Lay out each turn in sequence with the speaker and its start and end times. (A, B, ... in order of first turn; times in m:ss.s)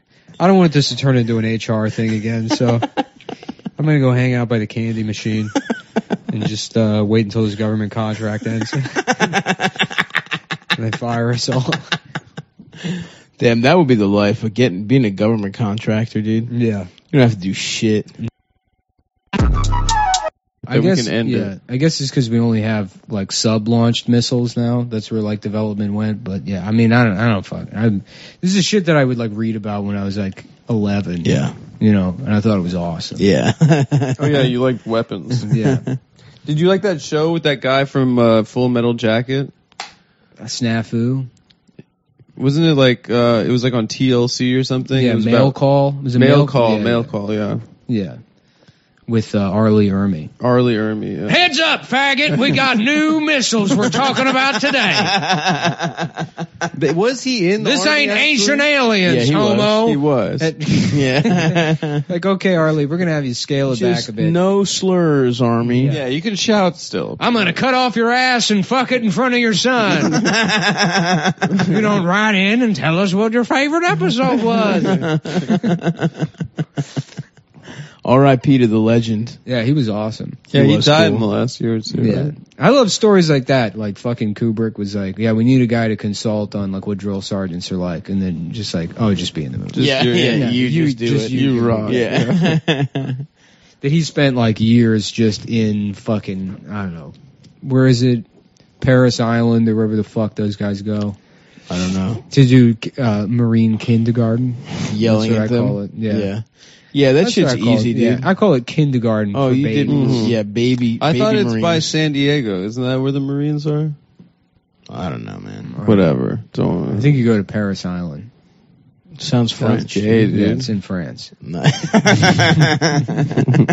0:00.4-0:02.8 A
0:03.8-0:05.5 A
0:06.3-0:08.8 A
0:10.8-0:11.9 A
0:13.4-0:16.5 B
0:16.5-0:16.9 A
0:17.1-0:18.1 B
0:20.7-0:33.3 A
0:20.7-0:21.4 C
0:31.2-0:31.6 B
0:33.2-0:34.4 B
0:34.2-0:35.5 C
0:35.5-0:35.8 A
0:35.6-0:36.0 B
0:36.5-0:39.5 C
0:40.4-0:41.3 A
0:42.4-0:45.6 C
0:44.9-0:47.2 A
0:46.1-0:47.6 C
0:47.9-0:48.2 A
0:49.1-0:50.3 A
0:50.4-0:51.3 C
0:51.3-0:55.1 D
0:55.2-0:55.8 B
0:56.8-1:00.3 B
0:57.6-0:58.5 A
0:57.6-1:00.0 D
1:00.4-1:04.4 A
1:00.9-1:02.0 B
1:03.7-1:06.0 B
1:05.7-1:06.0 A
1:05.9-1:07.3 C
1:07.2-1:10.1 D
1:11.8-1:14.9 D
1:18.0-1:19.4 B
1:19.5-1:20.4 A
1:20.5-1:22.3 C
1:20.5-1:21.3 B
1:22.0-1:32.4 A
1:29.8-1:30.6 C
1:29.8-1:33.1 B
1:33.8-1:38.2 A
1:38.8-1:41.2 A
1:41.7-1:42.2 B
1:42.3-1:46.3 A
1:44.9-1:48.3 B
1:47.2-1:50.4 A
1:49.3-1:52.0 B
1:49.9-1:50.3 C
1:51.0-1:54.0 C
1:54.9-1:56.5 B
1:55.6-1:56.1 A
1:55.9-1:56.8 C
1:56.9-1:58.3 A
1:59.2-2:00.7 B
1:59.6-2:01.3 A
2:01.4-2:03.0 B